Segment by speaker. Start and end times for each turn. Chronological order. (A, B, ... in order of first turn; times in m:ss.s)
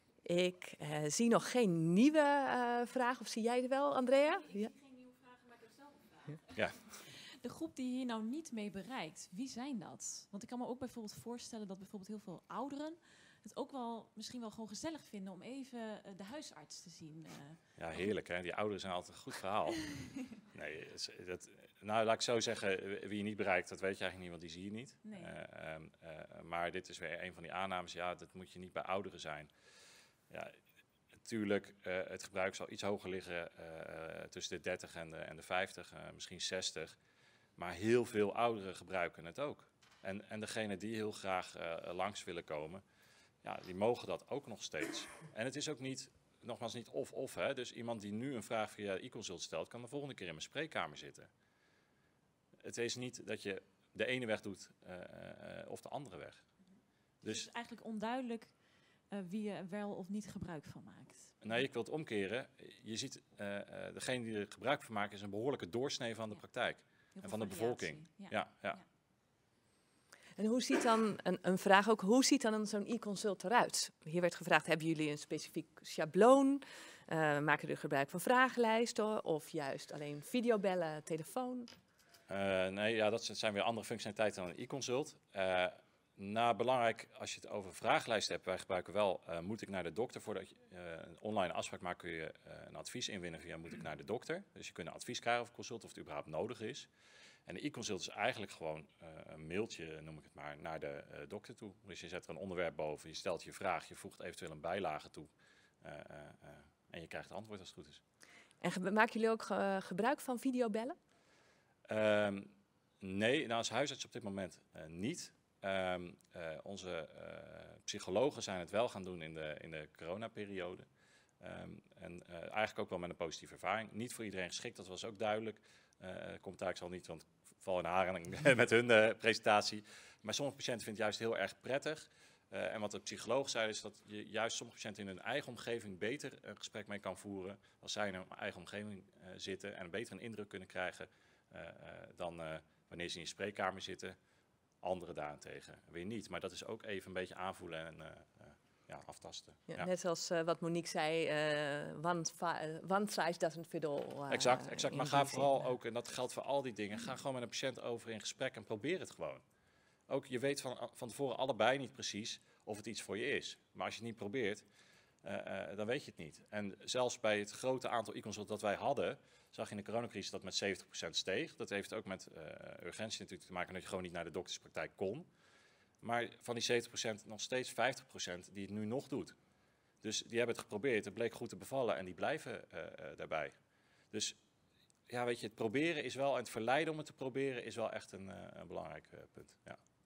0:00.2-0:04.7 A
0:04.4-0:17.6 B
0:06.5-0:06.8 C
0:17.8-0:29.5 C
0:19.9-0:20.3 B
0:25.0-0:25.3 B
0:30.3-0:30.6 C
0:31.2-0:37.0 C
0:37.6-0:42.8 C
0:43.4-0:51.3 C
0:52.6-0:56.4 C
0:57.2-0:58.6 B
0:59.1-1:01.4 B
1:01.4-1:08.8 C
1:07.2-1:08.8 B
1:10.4-1:21.7 A
1:22.3-1:36.9 C
1:37.5-1:45.3 C
1:45.8-1:48.0 C
1:48.6-1:51.0 A
1:51.9-1:52.5 C
1:53.0-2:00.9 C
2:01.4-2:24.2 C
2:24.8-2:29.9 C
2:29.7-2:35.5 A
2:34.3-2:39.4 C
2:40.1-2:44.6 C
2:45.2-2:55.3 C
2:56.0-2:59.4 C
3:00.0-3:03.5 C
3:04.1-3:04.4 C
3:05.1-3:09.8 C